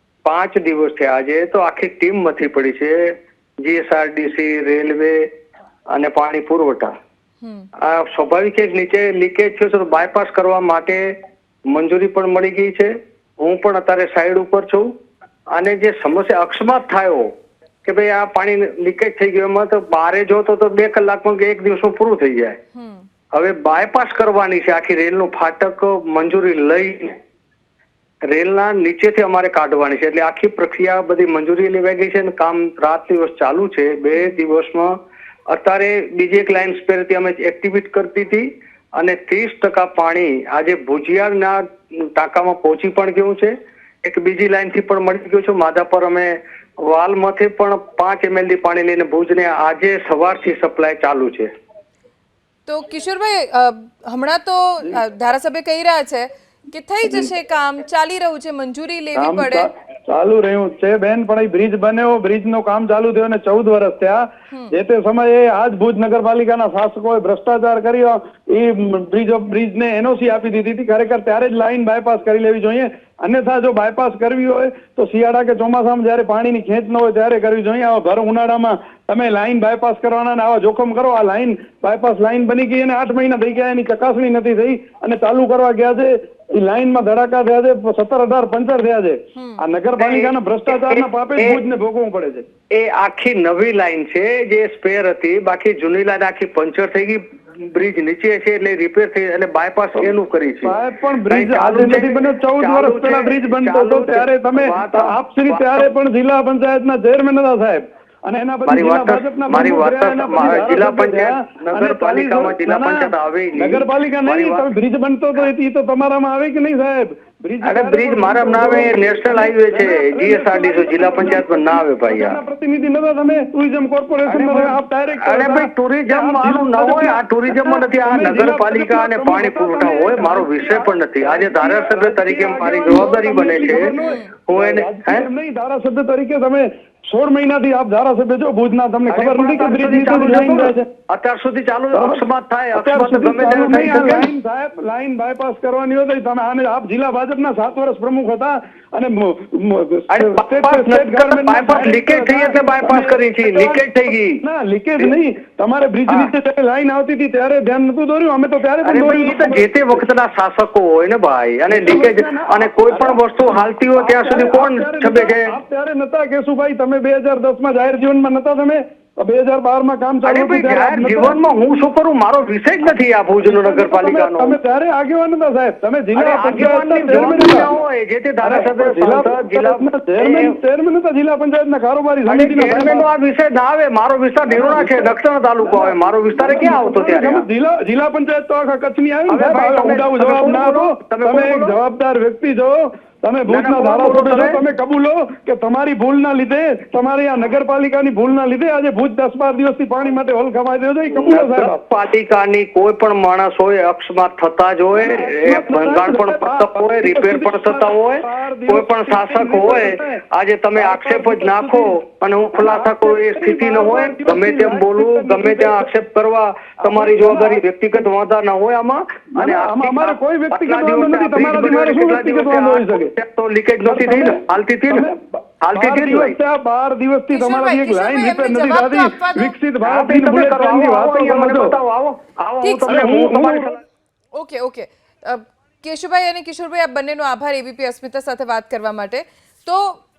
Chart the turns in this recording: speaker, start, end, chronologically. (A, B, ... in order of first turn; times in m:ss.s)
0:00.2-0:05.2 A
0:05.9-0:06.9 A
0:07.4-0:07.7 B
0:07.8-0:11.1 A
0:11.7-0:14.9 A
0:15.5-0:17.3 A
0:17.8-0:22.6 A
0:22.7-0:23.1 B
0:23.3-0:27.2 A
0:28.3-0:34.9 A
0:35.5-0:51.5 A
0:52.7-0:59.7 B
0:59.2-1:32.5 C
1:30.0-1:31.6 A
1:32.7-1:45.9 A
1:40.6-2:20.9 C
1:48.7-1:54.7 A
1:57.6-2:02.4 A
2:04.3-2:14.0 A
2:14.0-2:14.3 B
2:14.5-2:15.3 A
2:19.1-2:24.3 A
2:21.9-2:22.2 C
2:22.8-2:40.0 C
2:30.1-2:34.4 A
2:38.8-2:45.5 A
2:41.7-2:43.2 C
2:44.0-2:51.4 C
2:50.2-2:54.6 A
2:53.4-2:57.7 C
2:56.1-3:00.6 A
2:58.4-3:03.1 C
3:02.3-3:07.5 A
3:04.5-3:21.8 C
3:09.3-3:11.8 A
3:13.5-3:14.6 A
3:21.1-3:45.1 A
3:25.0-3:30.2 C
3:30.8-3:31.9 C
3:32.6-3:35.9 C
3:36.8-3:37.6 C
3:39.4-3:43.1 C
3:43.8-3:51.7 C
3:45.6-3:46.4 A
3:47.3-3:49.6 B
3:49.8-3:53.8 A
3:52.6-3:53.0 B
3:52.9-3:53.7 C
3:54.3-4:00.0 B